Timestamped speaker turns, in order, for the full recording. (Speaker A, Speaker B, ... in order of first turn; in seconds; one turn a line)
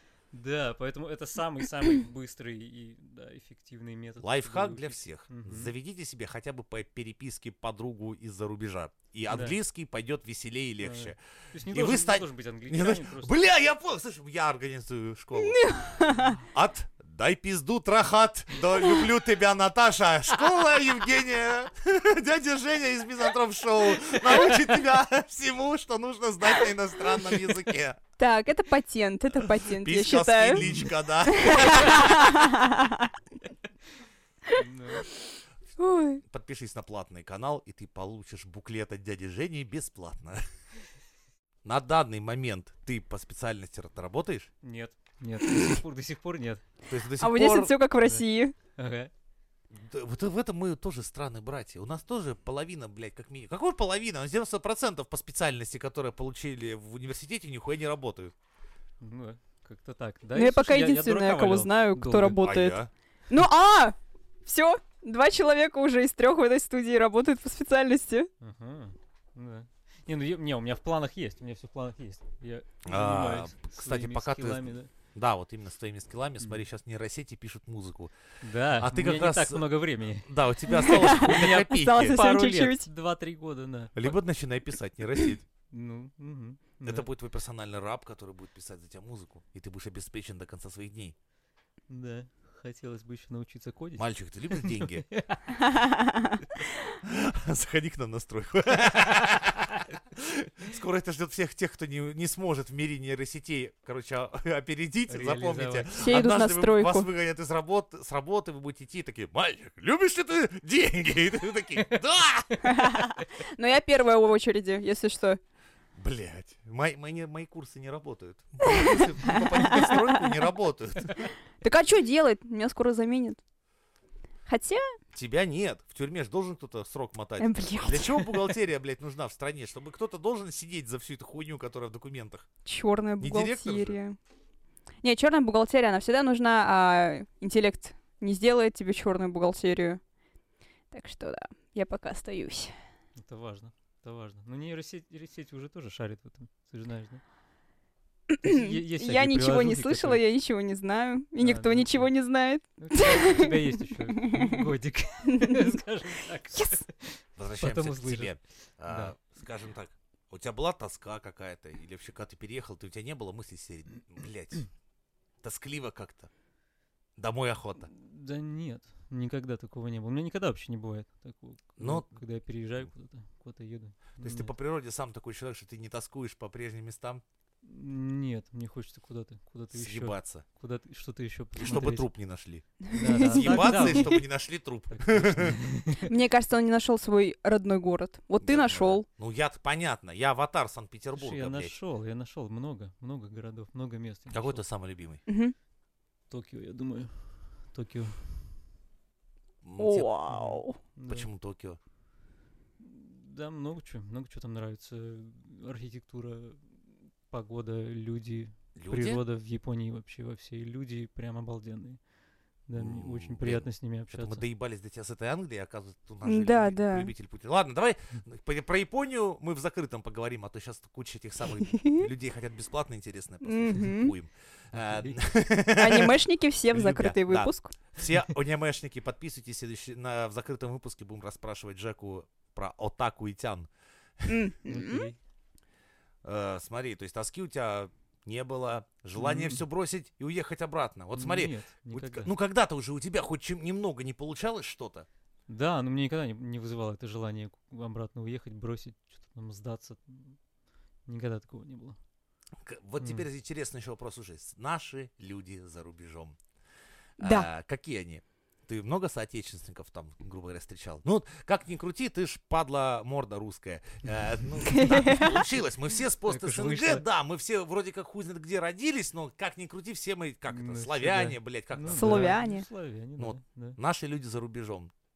Speaker A: 0.3-5.7
Speaker B: 4.2-15.7
Speaker A: 9.3-9.6
Speaker A: 10.8-13.3
Speaker C: 15.4-16.4
Speaker B: 16.5-28.0
Speaker C: 28.2-30.6
Speaker B: 29.7-32.2
Speaker A: 30.6-30.9
Speaker C: 31.2-33.1
Speaker A: 34.5-35.0
Speaker C: 35.8-36.2
Speaker B: 36.2-40.4
Speaker B: 41.6-44.5
Speaker A: 44.6-46.6
Speaker B: 46.9-47.7
Speaker C: 47.2-48.5
Speaker A: 48.8-49.1
Speaker B: 49.7-58.3
Speaker A: 59.0-62.4
Speaker C: 60.3-62.8
Speaker B: 62.4-62.9
Speaker C: 63.3-68.3
Speaker A: 68.4-74.9
Speaker B: 72.8-78.1
Speaker A: 78.4-84.2
Speaker B: 78.8-79.6
Speaker B: 80.2-82.2
Speaker C: 80.7-82.9
Speaker B: 84.0-85.4
Speaker A: 85.7-87.0
Speaker B: 86.8-91.1
Speaker A: 91.9-95.6
Speaker B: 94.0-95.0
Speaker C: 95.6-96.4
Speaker B: 97.0-112.5
Speaker A: 105.1-106.2
Speaker C: 106.0-107.1
Speaker C: 112.6-115.4
Speaker B: 116.0-121.3
Speaker C: 118.6-120.4
Speaker C: 121.6-123.4
Speaker C: 124.5-124.8
Speaker B: 125.1-132.4
Speaker C: 127.4-128.3
Speaker C: 132.6-134.2
Speaker B: 133.2-134.0
Speaker C: 135.0-140.0
Speaker C: 140.9-142.7
Speaker A: 143.2-147.2
Speaker C: 148.3-154.7
Speaker A: 148.4-150.2
Speaker A: 151.4-152.1
Speaker A: 152.8-158.3
Speaker C: 155.2-155.8
Speaker C: 156.5-156.8
Speaker B: 157.4-164.7
Speaker A: 158.8-159.2
Speaker B: 165.4-166.3
Speaker B: 167.2-167.9
Speaker A: 167.9-174.5
Speaker B: 171.8-172.1
Speaker B: 174.2-177.2
Speaker A: 177.6-182.1
Speaker B: 179.7-180.4
Speaker B: 181.6-185.6
Speaker C: 182.9-184.2
Speaker A: 182.9-184.3
Speaker A: 184.9-186.1
Speaker C: 185.9-189.0
Speaker B: 188.4-191.8
Speaker A: 191.2-194.6
Speaker B: 194.3-195.2
Speaker C: 195.3-195.5
Speaker A: 196.3-198.4
Speaker B: 199.6-200.1
Speaker C: 199.8-200.8
Speaker A: 200.3-201.3
Speaker B: 201.1-201.8
Speaker A: 202.8-212.0
Speaker B: 208.8-209.2
Speaker A: 212.7-214.4
Speaker B: 212.8-226.2
Speaker C: 216.2-217.1
Speaker C: 221.6-222.1
Speaker C: 223.4-224.1
Speaker A: 224.8-225.2
Speaker C: 225.8-227.8
Speaker B: 226.7-233.7
Speaker C: 234.3-235.1
Speaker A: 234.7-235.2
Speaker B: 236.2-245.1
Speaker A: 239.2-239.6
Speaker A: 241.2-242.3
Speaker A: 245.5-250.4
Speaker A: 251.1-252.0
Speaker B: 252.6-256.4
Speaker A: 253.0-253.2
Speaker B: 257.2-272.4
Speaker C: 257.2-257.5
Speaker C: 264.6-265.4
Speaker A: 266.2-267.0
Speaker A: 270.5-273.8
Speaker C: 271.9-272.6
Speaker B: 273.2-274.9